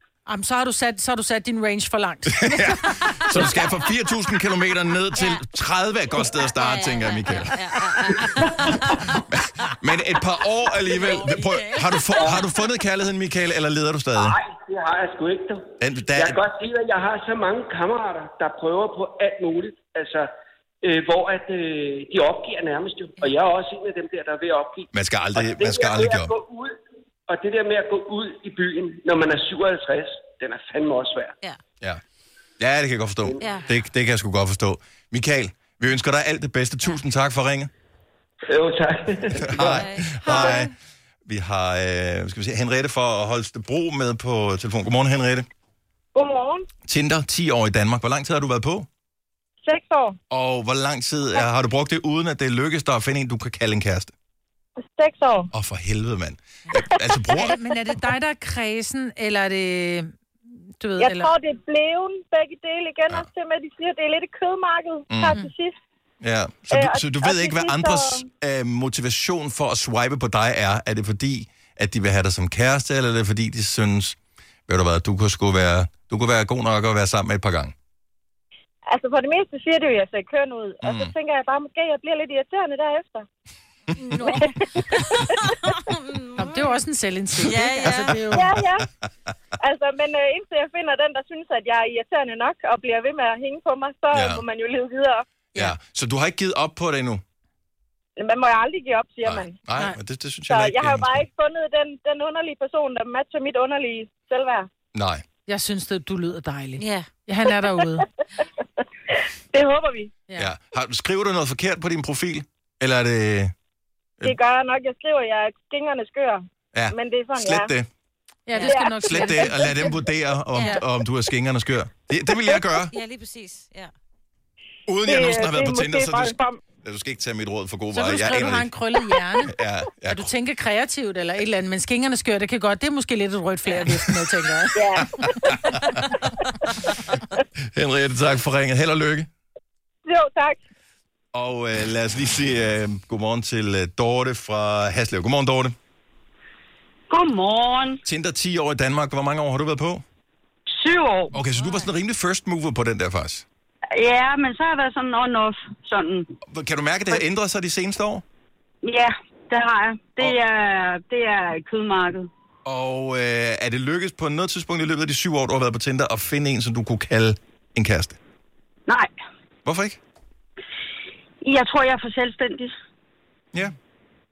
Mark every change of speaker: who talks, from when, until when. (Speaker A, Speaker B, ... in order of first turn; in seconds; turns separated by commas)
Speaker A: 0.2-3.4, Speaker B: 2.3-8.2, Speaker C: 5.2-5.4, Speaker C: 6.5-9.2, Speaker B: 9.3-14.3, Speaker C: 10.9-12.4, Speaker D: 14.1-20.3, Speaker B: 15.8-16.4, Speaker D: 20.8-26.7, Speaker B: 24.9-26.3, Speaker D: 27.3-31.4, Speaker B: 32.6-37.7, Speaker C: 33.4-33.7, Speaker D: 38.5-39.8, Speaker B: 39.4-40.7, Speaker C: 39.5-40.2, Speaker B: 41.3-45.5, Speaker E: 46.1-46.6, Speaker B: 46.9-48.9, Speaker E: 49.6-50.1, Speaker B: 50.3-54.1, Speaker E: 55.0-55.5, Speaker B: 55.5-57.6, Speaker A: 57.3-60.1, Speaker A: 60.8-61.3, Speaker E: 61.0-65.7, Speaker B: 65.1-65.3, Speaker B: 66.2-77.7, Speaker E: 66.7-68.2, Speaker E: 78.9-83.3, Speaker B: 80.8-81.1, Speaker C: 84.1-86.8, Speaker E: 84.2-85.4, Speaker A: 86.3-88.5, Speaker C: 87.4-88.4, Speaker E: 88.3-88.9, Speaker E: 89.6-95.2, Speaker B: 94.1-94.4, Speaker B: 95.5-97.2, Speaker E: 98.2-99.5, Speaker B: 99.2-101.2, Speaker E: 100.5-104.7, Speaker B: 104.9-105.2, Speaker A: 105.5-108.0, Speaker C: 106.8-107.1, Speaker E: 109.1-110.1, Speaker B: 110.3-113.5, Speaker E: 114.2-117.7, Speaker B: 116.7-117.9, Speaker A: 118.5-119.7, Speaker E: 118.6-119.7, Speaker B: 119.0-122.9, Speaker C: 120.5-120.8, Speaker C: 122.9-123.9, Speaker B: 124.8-128.7, Speaker E: 125.0-126.6, Speaker A: 127.9-129.5, Speaker B: 129.4-130.3, Speaker A: 130.1-134.8, Speaker E: 134.7-136.4, Speaker B: 135.0-136.0, Speaker B: 137.7-139.3, Speaker E: 140.1-140.6, Speaker B: 141.3-145.7, Speaker F: 147.1-148.0, Speaker B: 148.0-150.0, Speaker F: 150.7-151.3, Speaker B: 151.3-153.4, Speaker C: 151.6-151.9, Speaker F: 153.9-156.3, Speaker B: 156.5-158.2, Speaker F: 158.8-162.3, Speaker B: 162.7-168.2, Speaker B: 169.6-170.0, Speaker F: 171.4-172.7